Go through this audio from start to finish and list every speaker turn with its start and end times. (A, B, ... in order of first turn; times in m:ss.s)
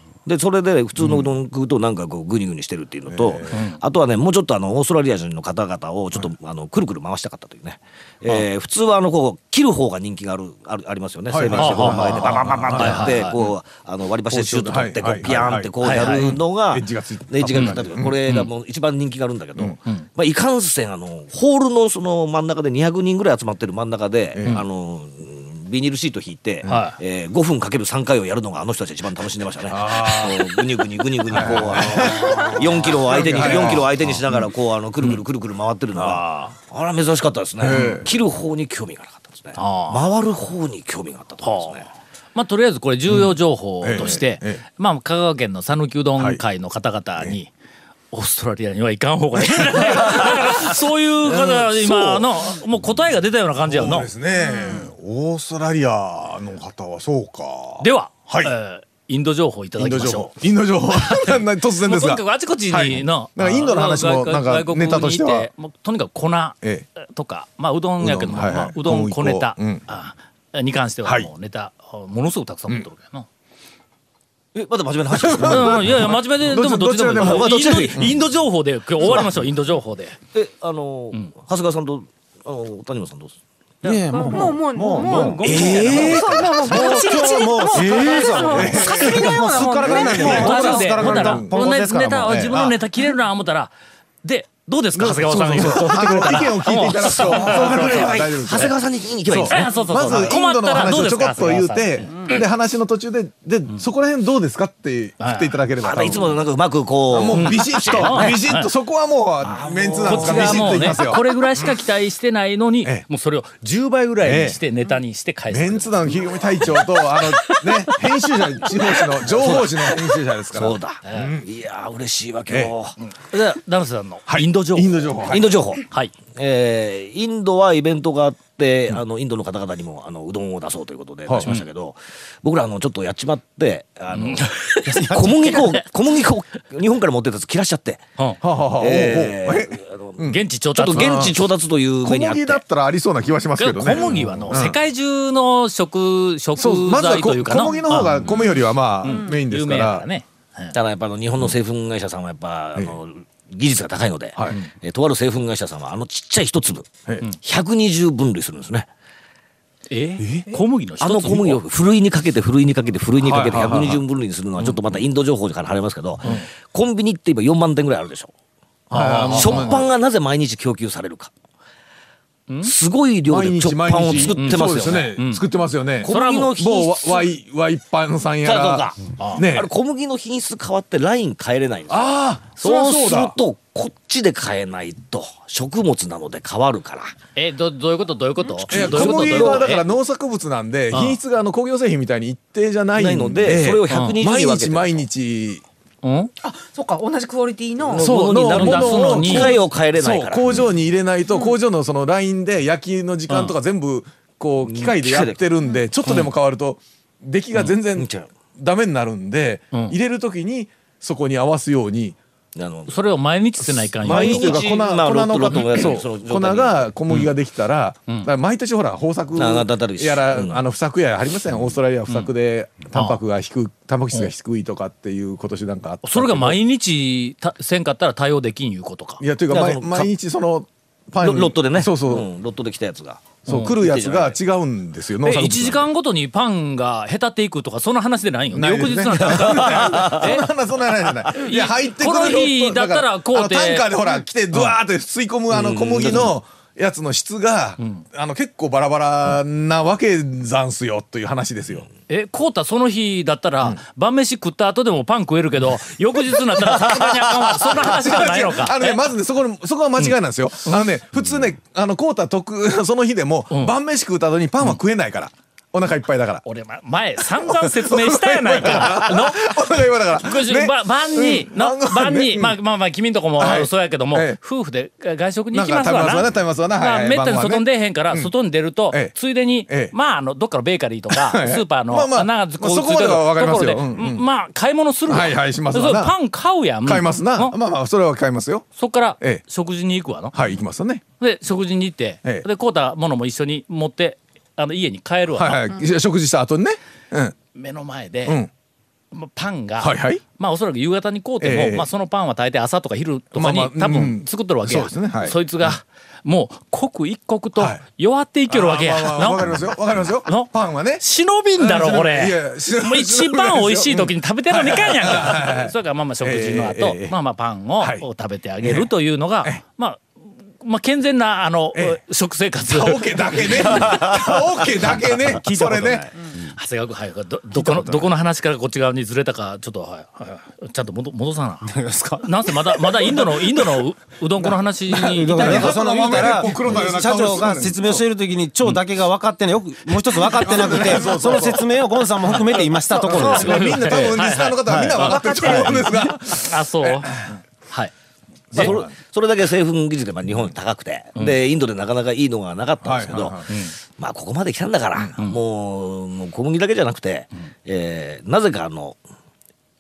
0:00.3-0:41.9 A
0:01.0-0:01.3 B
0:03.1-0:03.6 B
0:03.5-0:03.8 C
0:11.3-0:13.6 B
0:11.6-0:13.4 C
0:14.3-0:18.2 B
0:15.8-0:16.4 C
0:17.5-0:18.5 C
0:24.3-0:24.6 B
0:26.6-0:26.9 B
0:26.7-0:27.0 C
0:29.7-0:30.7 B
0:31.3-0:34.4 B
0:36.0-0:36.2 B
0:37.6-0:38.1 B
0:39.6-0:40.0 C
0:41.4-0:47.5 C
0:43.1-0:44.6 B
0:48.1-0:54.1 C
0:49.4-0:52.3 B
0:53.6-0:58.5 B
0:54.4-0:54.8 D
0:57.8-1:00.4 C
0:59.8-1:05.5 B
1:00.9-1:13.3 C
1:06.6-1:06.9 B
1:08.0-1:09.8 B
1:11.0-1:11.3 B
1:14.6-1:16.0 A
1:15.1-1:18.2 B
1:15.4-1:20.2 C
1:17.1-1:18.0 A
1:20.3-1:23.4 A
1:23.8-1:27.0 C
1:23.8-1:32.5 E
1:24.1-1:30.9 D
1:24.8-1:25.3 B
1:25.4-1:26.5 A
1:28.4-1:32.8 B
1:29.6-1:38.7 C
1:34.9-1:46.4 B
1:37.2-1:40.3 A
1:39.4-1:42.4 C
1:45.2-1:45.6 C
1:45.8-1:48.4 A
1:47.1-1:51.8 B
1:47.3-1:48.7 C
1:49.5-1:51.0 A
1:50.0-1:56.2 C
1:54.2-1:54.6 B
1:55.5-2:01.4 B
1:57.1-1:58.0 C
1:59.3-1:59.8 A
2:00.5-2:03.0 A
2:01.0-2:01.4 C
2:03.0-2:06.1 C
2:04.3-2:05.6 B
2:05.3-2:18.0 A
2:14.1-2:15.8 C
2:14.9-2:15.7 E
2:18.4-2:21.4 B
2:18.8-2:22.6 A
2:20.2-2:21.3 C
2:22.0-2:24.8 B
2:23.6-2:30.8 C
2:26.6-2:30.0 B
2:30.7-2:38.9 A
2:39.9-2:41.6 C
2:40.2-2:40.5 B
2:41.0-2:48.3 A
2:43.2-2:44.0 B
2:48.9-2:49.8 C
2:48.9-2:49.9 B
2:49.3-2:51.3 A
2:52.6-2:55.1 A
2:53.3-2:59.7 B
2:54.4-2:55.4 C
2:56.0-2:57.3 A
2:56.0-2:56.5 C
2:58.4-3:07.1 A
3:01.9-3:03.4 B
3:07.4-3:09.9 C
3:08.7-3:09.7 A
3:08.7-3:15.6 B
3:10.9-3:11.2 C
3:13.0-3:15.0 A
3:13.9-3:14.2 C
3:16.0-3:16.3 C
3:16.4-3:18.1 D
3:17.9-3:20.7 A
3:17.9-3:32.2 B
3:18.5-3:19.6 C
3:23.3-3:23.5 C
3:24.6-3:25.4 A
3:27.7-3:28.3 A
3:29.7-3:30.0 C
3:32.6-3:33.0 A
3:32.9-3:34.7 C
3:33.7-3:46.6 B
3:34.0-3:37.2 A
3:39.4-3:40.6 A
3:42.9-3:43.2 C
3:46.0-3:49.2 C
3:49.2-3:52.3 B
3:49.5-3:50.1 A
3:51.2-3:54.4 A
3:53.5-3:53.8 C
3:53.5-3:55.8 B
3:55.2-4:00.5 C
3:58.5-4:11.9 B
3:59.2-4:00.3 A
4:01.3-4:03.9 C
4:05.5-4:06.3 A
4:12.1-4:19.0 C
4:16.3-4:26.4 B
4:20.0-4:20.8 C
4:26.4-4:29.6 C
4:27.2-4:32.6 B
4:30.1-4:47.6 C
4:33.4-4:34.4 B
4:35.5-4:38.3 B
4:38.9-4:39.9 B
4:41.1-4:44.3 B
4:45.1-4:46.2 B
4:46.8-4:48.7 B
4:48.8-4:50.4 C
4:50.3-4:51.0 B
4:51.2-4:55.7 C
4:55.3-4:57.4 B
4:57.5-4:58.4 C
4:58.2-4:58.5 B
4:59.1-5:09.6 C
4:59.8-5:00.2 B
5:01.4-5:01.9 B
5:03.3-5:05.7 B
5:07.6-5:07.8 B
5:08.5-5:11.0 B
5:10.2-5:20.0 C
5:11.6-5:17.2 B
5:17.8-5:18.1 B
5:18.6-5:19.6 B
5:20.6-5:24.2 C
5:21.7-5:22.0 B
5:22.6-5:26.1 B
5:25.4-5:26.1 E
5:26.3-5:31.7 C
5:27.6-5:28.1 E
5:31.6-5:33.2 E
5:32.2-5:35.9 C
5:34.9-5:38.0 B
5:35.0-5:44.0 E
5:40.1-5:41.8 B
5:42.4-5:47.3 B
5:42.5-5:47.9 C
5:44.6-5:45.8 E
5:48.5-5:48.9 B
5:48.5-5:59.0 A
5:52.8-5:53.5 B
5:53.5-5:53.7 C